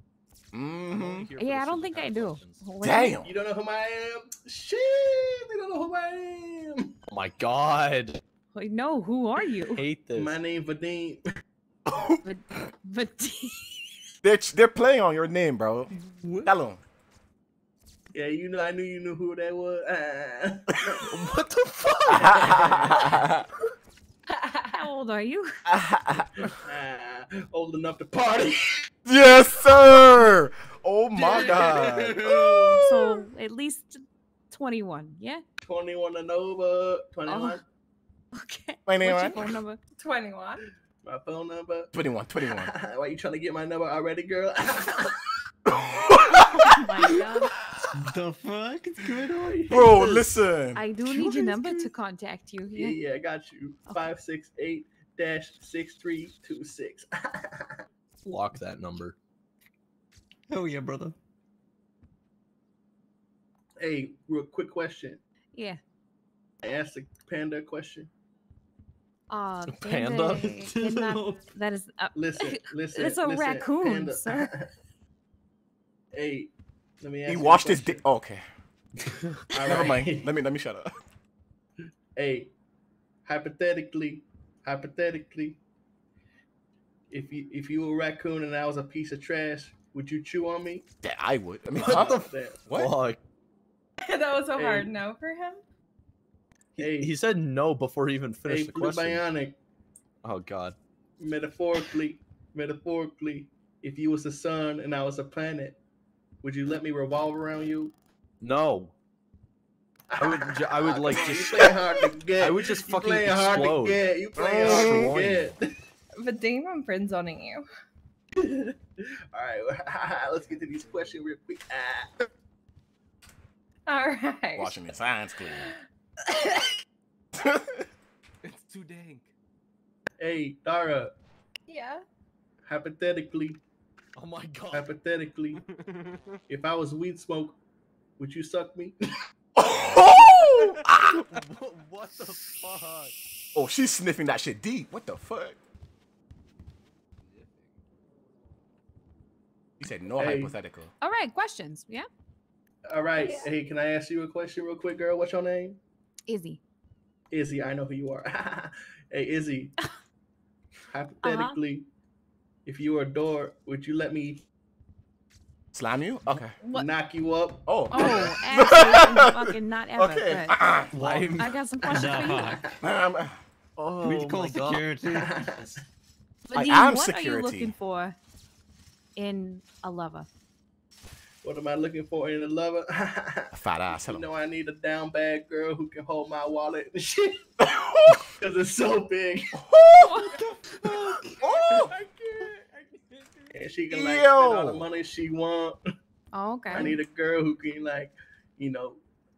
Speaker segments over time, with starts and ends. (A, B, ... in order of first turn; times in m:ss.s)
0:00.5-0:01.3 A
0:00.9-0:02.6 B
0:01.4-0:03.2 C
0:02.8-0:03.3 A
0:03.2-0:06.9 D
0:07.1-0:08.2 B
0:08.5-0:09.8 C
0:09.7-0:10.3 B
0:10.1-0:11.2 D
0:11.9-0:12.2 A
0:12.2-0:13.8 C
0:14.2-0:15.9 A
0:16.1-0:16.5 D
0:16.4-0:16.8 A
0:18.1-0:21.0 D
0:21.0-0:22.6 B
0:22.2-0:23.1 D
0:22.4-0:23.4 A
0:24.4-0:24.8 E
0:24.7-0:25.5 C
0:25.6-0:26.4 A
0:26.6-0:28.9 D
0:29.0-0:32.7 A
0:31.2-0:33.0 D
0:32.8-0:35.4 C
0:35.6-0:37.6 D
0:37.3-0:37.6 C
0:38.3-0:39.8 C
0:38.9-0:39.4 A
0:40.0-0:40.6 E
0:41.0-0:41.9 D
0:41.9-0:42.7 A
0:42.5-0:45.1 D
0:45.7-0:46.5 A
0:46.4-0:47.5 C
0:47.9-0:49.3 F
0:49.0-0:50.1 D
0:49.7-0:50.8 A
0:50.0-0:50.2 B
0:50.8-0:53.0 C
0:51.1-0:51.9 D
0:52.7-0:57.8 D
0:58.2-0:59.2 B
1:00.5-1:01.1 F
1:03.8-1:05.2 D
1:05.5-1:05.8 C
1:06.6-1:08.1 D
1:09.3-1:14.5 C
1:09.7-1:11.2 B
1:11.1-1:11.4 F
1:12.1-1:14.7 D
1:16.1-1:18.0 D
1:17.3-1:18.4 A
1:19.5-1:20.3 D
1:19.6-1:20.9 A
1:22.1-1:22.5 D
1:23.2-1:25.6 D
1:27.1-1:30.8 D
1:31.0-1:32.9 A
1:31.8-1:32.6 D
1:31.8-1:33.2 B
1:34.0-1:35.6 E
1:34.5-1:34.9 D
1:36.8-1:37.1 D
1:36.8-1:39.2 B
1:38.4-1:39.6 D
1:40.2-1:40.8 B
1:41.2-1:45.8 D
1:46.4-1:47.9 D
1:48.4-1:48.9 B
1:50.1-1:55.7 D
1:50.2-1:51.8 B
1:52.4-1:54.0 B
1:54.4-1:55.2 A
1:54.6-1:55.5 B
1:56.2-1:57.6 E
1:58.4-1:58.7 D
1:59.3-2:02.1 D
2:00.6-2:01.1 A
2:03.9-2:04.8 E
2:04.6-2:05.7 A
2:05.5-2:06.7 E
2:07.3-2:07.8 A
2:08.4-2:09.3 A
2:10.2-2:11.1 D
2:11.7-2:12.0 E
2:12.6-2:13.6 D
2:14.2-2:14.9 B
2:14.7-2:15.6 D
2:16.5-2:17.6 D
2:18.2-2:19.0 D
2:19.6-2:21.1 A
2:21.0-2:23.1 B
2:23.5-2:25.6 A
2:29.8-2:30.9 A
2:30.2-2:30.5 D
2:31.0-2:32.1 C
2:32.9-2:35.8 D
2:33.2-2:33.5 E
2:36.3-2:36.6 C
2:37.3-2:39.7 D
2:40.9-2:41.8 D
2:41.2-2:41.6 C
2:42.6-2:44.4 D
2:45.7-2:46.5 A
2:46.6-2:46.9 C
2:46.7-2:48.2 D
2:47.7-2:50.9 A
2:47.9-2:52.6 C
2:50.9-2:51.5 B
2:51.3-2:52.6 F
2:52.3-2:52.7 D
2:52.8-2:53.4 A
2:53.8-2:54.8 B
2:54.0-2:55.5 F
2:55.1-2:55.8 D
2:56.4-2:58.2 C
2:56.5-2:57.7 A
2:59.2-3:00.3 C
3:01.4-3:07.4 D
3:03.5-3:04.2 A
3:07.6-3:08.2 A
3:08.4-3:09.5 D
3:09.5-3:10.3 A
3:10.0-3:10.3 C
3:10.8-3:12.5 D
3:11.3-3:11.9 A
3:13.5-3:15.8 D
3:13.9-3:14.8 A
3:16.3-3:17.0 C
3:16.7-3:19.0 D